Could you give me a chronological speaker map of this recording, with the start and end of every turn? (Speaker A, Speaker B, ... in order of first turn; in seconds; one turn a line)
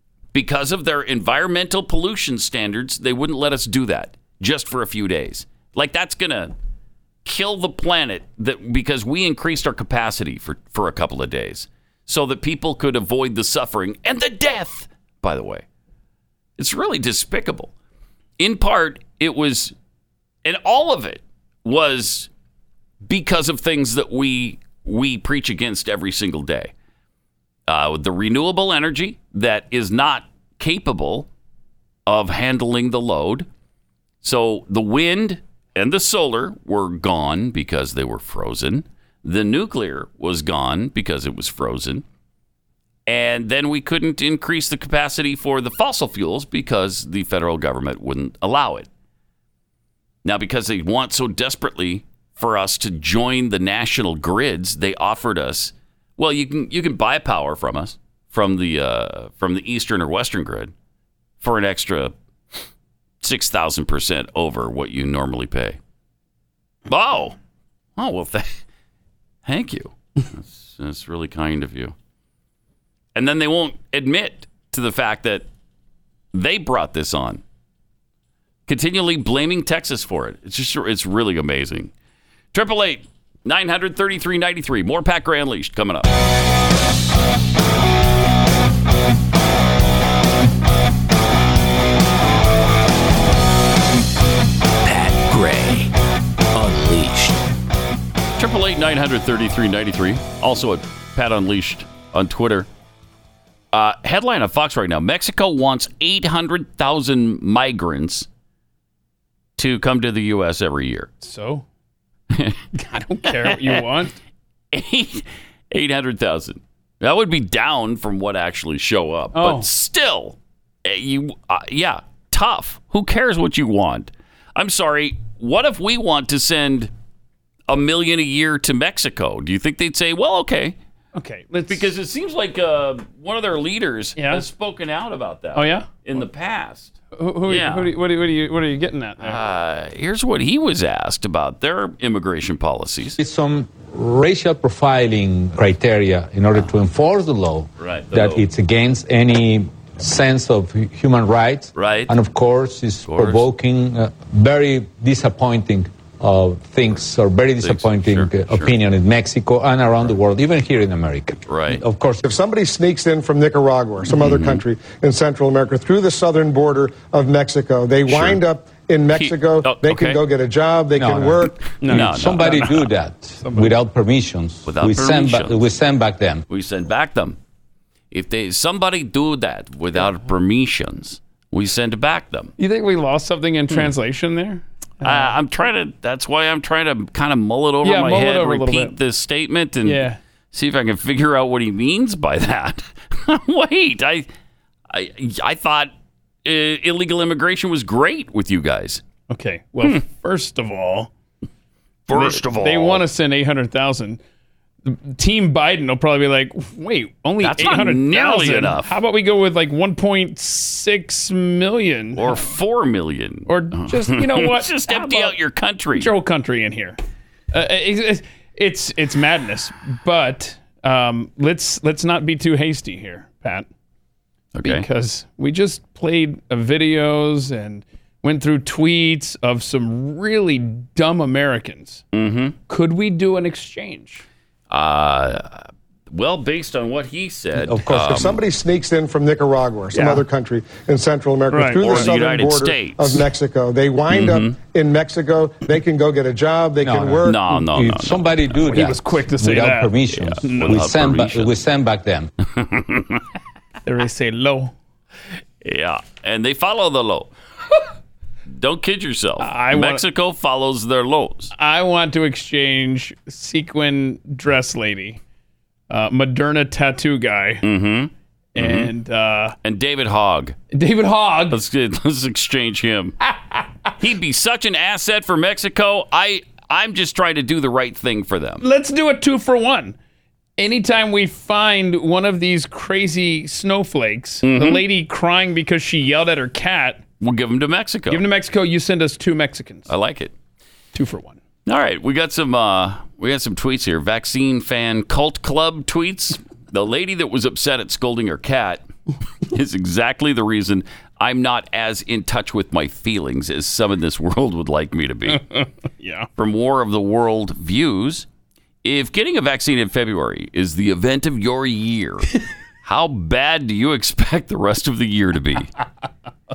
Speaker A: 0.3-6.5
Speaker A: 7.2-15.6
Speaker A: 16.6-17.7
Speaker A: 18.4-19.7
Speaker A: 20.4-22.3
Speaker A: 23.0-26.7
Speaker A: 27.7-31.3
Speaker A: 32.0-33.5
Speaker A: 34.2-42.0
Speaker A: 43.1-48.9
Speaker A: 50.2-60.7
Speaker A: 61.4-62.1
Speaker A: 63.2-65.8
Speaker A: 66.9-67.4
Speaker A: 68.0-68.6
Speaker A: 69.4-71.9
Speaker A: 73.1-75.5
Speaker A: 76.3-77.4
Speaker A: 78.7-81.9
Speaker A: 82.5-86.1
Speaker B: 94.8-95.9
Speaker B: 96.5-97.4
Speaker A: 98.4-102.7
Speaker A: 103.7-108.3
Speaker A: 109.6-111.1
Speaker C: 111.2-111.7
Speaker A: 112.3-112.6
Speaker C: 112.7-114.2
Speaker A: 113.2-113.8
Speaker A: 114.7-126.9
Speaker C: 119.3-119.7
Speaker A: 127.7-130.8
Speaker C: 131.1-131.9
Speaker A: 131.7-137.9
Speaker C: 134.2-134.4
Speaker C: 135.5-135.9
Speaker C: 137.1-139.4
Speaker A: 139.2-143.2
Speaker D: 143.2-162.2
Speaker A: 147.8-148.4
Speaker A: 151.7-152.1
Speaker A: 153.1-153.5
Speaker A: 157.6-158.7
Speaker A: 161.4-161.8
Speaker E: 162.2-171.7
Speaker A: 164.1-164.6
Speaker A: 168.1-168.4
Speaker A: 169.1-170.2
Speaker D: 170.9-176.4
Speaker C: 171.8-173.8
Speaker A: 171.8-172.6
Speaker A: 174.6-175.6
Speaker A: 176.5-177.4
Speaker A: 178.1-182.5
Speaker C: 182.6-185.3
Speaker A: 185.0-194.3
Speaker C: 187.8-189.0
Speaker C: 189.8-190.2
Speaker A: 194.9-195.9
Speaker A: 196.4-199.0
Speaker C: 199.3-201.1
Speaker A: 202.1-203.0
Speaker C: 202.1-204.2
Speaker C: 204.8-212.4
Speaker A: 207.4-208.9
Speaker A: 212.1-216.1
Speaker C: 213.5-215.3
Speaker C: 215.9-217.0
Speaker C: 217.5-223.7
Speaker A: 224.5-224.9
Speaker C: 224.6-232.0
Speaker A: 232.1-232.6
Speaker C: 232.7-234.2
Speaker A: 234.7-238.4
Speaker D: 237.6-238.2
Speaker E: 237.9-247.4
Speaker C: 239.9-240.2
Speaker C: 241.5-242.1
Speaker A: 241.8-243.2
Speaker A: 244.1-244.6
Speaker D: 246.8-252.3
Speaker A: 247.2-248.6
Speaker C: 248.7-250.8
Speaker A: 250.1-251.6
Speaker A: 252.4-253.2
Speaker C: 253.8-254.7
Speaker A: 255.6-257.3
Speaker A: 258.5-261.5
Speaker C: 259.4-260.0
Speaker C: 261.5-265.2
Speaker C: 265.9-267.6
Speaker A: 267.6-268.9
Speaker C: 268.5-269.6
Speaker A: 269.6-270.6
Speaker C: 270.7-271.6
Speaker A: 271.5-273.2
Speaker C: 273.3-273.9
Speaker A: 274.0-278.6
Speaker C: 278.6-280.0
Speaker C: 280.6-287.0
Speaker A: 284.4-284.8
Speaker A: 287.2-288.2
Speaker C: 288.1-289.9
Speaker A: 289.9-290.3
Speaker C: 290.9-291.4
Speaker A: 291.6-298.9
Speaker A: 299.4-305.4
Speaker C: 305.3-306.3
Speaker A: 306.4-308.3
Speaker A: 308.8-312.3
Speaker A: 312.8-315.7